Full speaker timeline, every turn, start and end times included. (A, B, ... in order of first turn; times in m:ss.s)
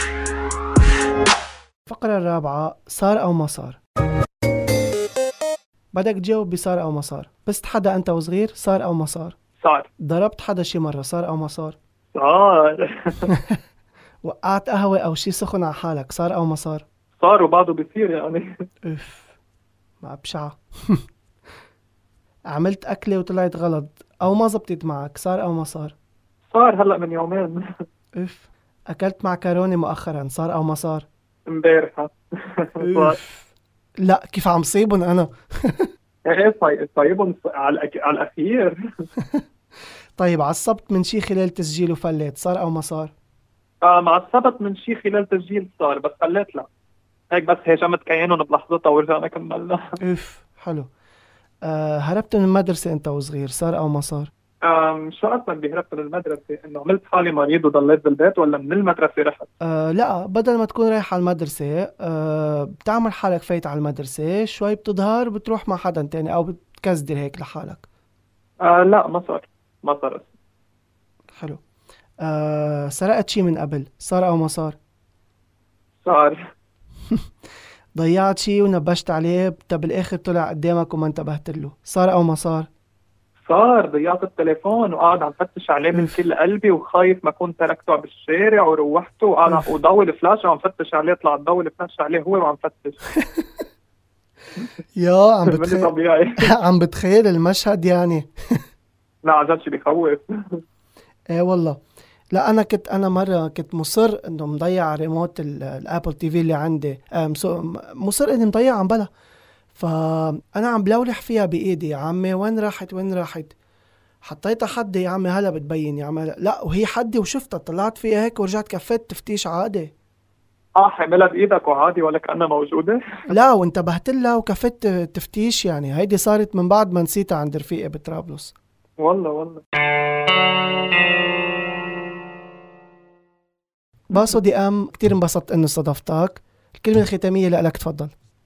0:01.8-0:03.8 A
0:05.9-0:09.3 A
0:09.6-0:09.9 B
0:10.0-0:11.8 A
0:12.1-0:13.3 B
0:13.3-0:13.6 A
0:14.2-0:16.8 A
0:17.2-0:18.5 B
0:18.8-0:19.3 A
0:20.0-0:21.0 A
0:22.5-0:25.9 A
0:26.5-0:27.6 B
0:28.1-0:31.0 A
0:31.5-0:33.2 B
0:32.8-0:33.5 A
0:34.0-0:35.9 A
0:36.2-0:38.8 B
0:39.2-0:39.4 A
0:40.2-0:43.1 A
0:43.8-0:46.7 B
0:47.3-0:50.0 B
0:50.0-0:50.9 A
0:51.6-0:54.3 A
0:54.6-0:59.5 B
0:59.6-1:07.8 A
1:08.6-1:10.3 B
1:11.3-1:11.6 A
1:12.2-1:14.8 A
1:16.0-1:16.4 B
1:18.0-1:22.7 A
1:23.5-1:33.0 B
1:25.9-1:26.2 A
1:33.2-1:33.6 A
1:35.0-1:38.6 A
1:35.4-1:36.5 B
1:39.2-1:40.6 B
1:41.3-1:41.8 A
1:42.3-1:49.1 A
1:49.7-1:53.5 A
1:54.2-1:59.9 A
2:00.8-2:03.0 B
2:03.3-2:08.5 A
2:09.0-2:09.6 B
2:14.1-2:18.1 A